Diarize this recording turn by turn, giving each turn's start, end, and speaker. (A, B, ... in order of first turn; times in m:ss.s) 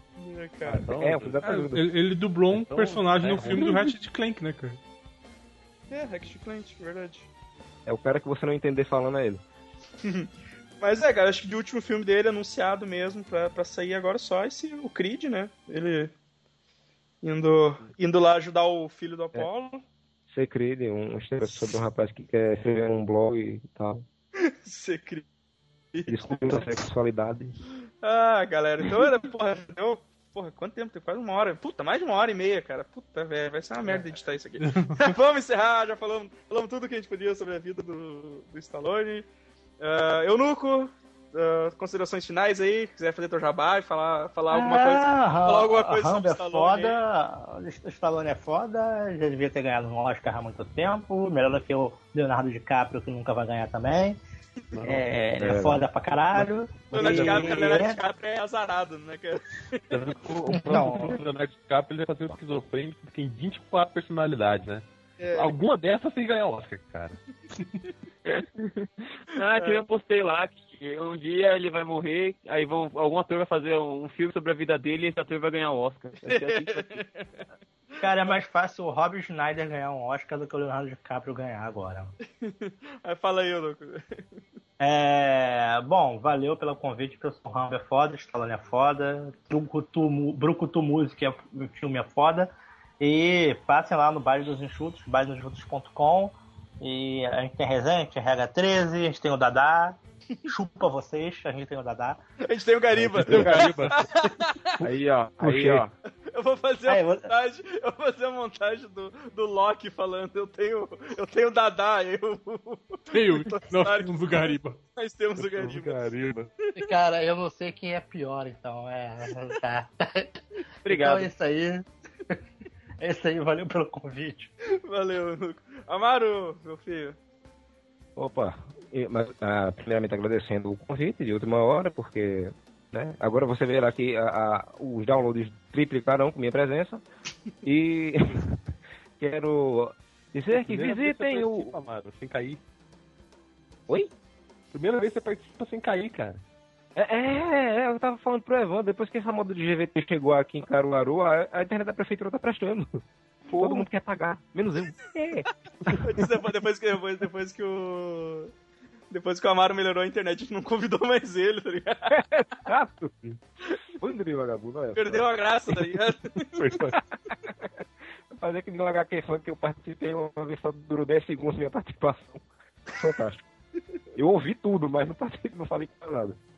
0:00.2-0:00.9 A
0:00.7-0:01.4 B
0:00.7-0:01.8 C
0:01.4-0:04.8 D
0:02.5-0:03.7 B
0:05.9-0:07.3 A
0:07.8-0:09.4 C
0:10.0-0:10.3 A
0:10.8-0:16.1 A
0:17.2-0:19.8 A
0:20.3-0:24.0 C
0:24.4-0:25.2 A
0:25.9-0:26.6 A
0:26.1-0:27.5 C
0:28.0-0:39.3 A
0:34.6-0:35.1 D
0:39.8-0:47.0 A
0:44.5-0:54.2 E
0:54.7-0:55.6 B
0:54.8-0:58.0 E
0:55.4-0:55.8 C
0:56.3-0:57.7 B
0:56.9-1:00.0 A
0:57.0-0:57.4 C
0:59.9-1:07.2 B
1:00.5-1:01.2 E
1:05.2-1:05.5 A
1:08.2-1:17.0 F
1:09.4-1:09.8 A
1:16.2-1:18.1 A
1:18.0-1:22.1 E
1:22.3-1:24.0 A
1:24.8-1:42.2 E
1:42.4-1:44.8 A
1:42.9-1:43.9 B
1:43.1-1:43.8 C
1:43.3-1:43.9 D
1:44.8-1:45.9 C
1:44.8-1:45.9 F
1:46.3-1:56.0 A
1:46.9-1:47.3 E
1:53.1-1:54.8 D
1:55.4-1:56.5 B
1:56.8-2:02.4 E
2:00.8-2:01.3 F
2:03.0-2:04.5 E
2:04.8-2:07.2 A
2:08.2-2:17.0 C
2:17.6-2:18.6 C
2:19.2-2:21.7 C
2:20.5-2:22.6 B
2:24.7-2:26.4 B
2:27.0-2:36.2 C
2:33.5-2:33.8 B
2:36.0-2:38.5 A
2:39.1-2:42.2 A
2:42.1-2:43.2 C
2:44.0-2:45.3 C
2:44.9-2:46.7 A
2:46.6-2:47.0 B
2:46.9-2:53.4 C
2:54.1-2:56.4 C